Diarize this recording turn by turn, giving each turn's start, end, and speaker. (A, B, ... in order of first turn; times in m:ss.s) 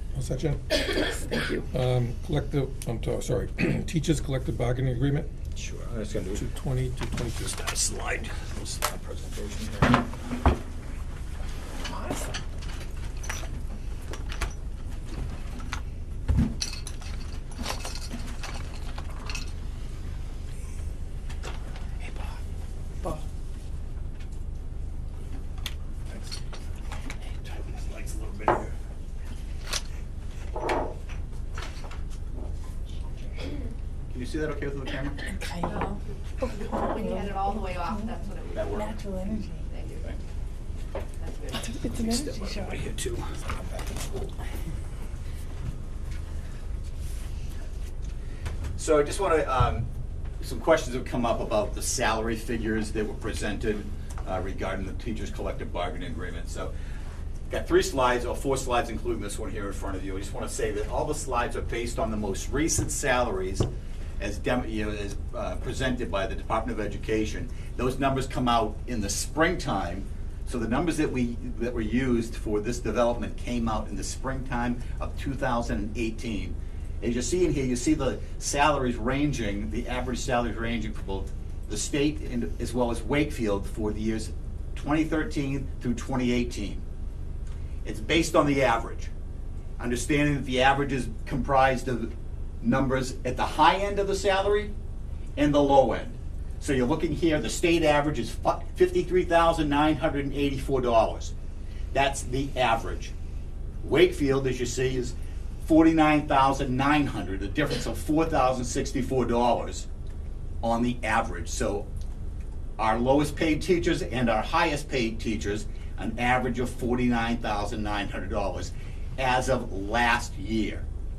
0:00.2-0:05.3 A
0:01.2-0:01.6 B
0:05.6-0:06.5 C
0:06.4-0:07.5 A
0:07.4-0:10.0 C
0:11.8-0:12.4 B
0:27.4-0:28.8 C
0:34.1-0:35.2 C
0:35.3-0:39.7 B
0:36.4-0:39.0 D
0:38.5-0:39.5 C
0:39.6-0:40.2 D
0:41.2-0:41.8 D
0:41.5-0:42.9 B
0:41.9-0:44.3 C
0:48.8-0:49.9 C
0:50.4-0:56.7 C
0:57.5-1:03.7 C
1:04.2-1:26.8 C
1:27.8-1:29.1 C
1:29.8-1:34.7 C
1:35.4-1:41.3 C
1:41.9-1:43.1 C
1:43.8-1:49.9 C
1:50.6-1:51.9 C
1:52.8-2:00.8 C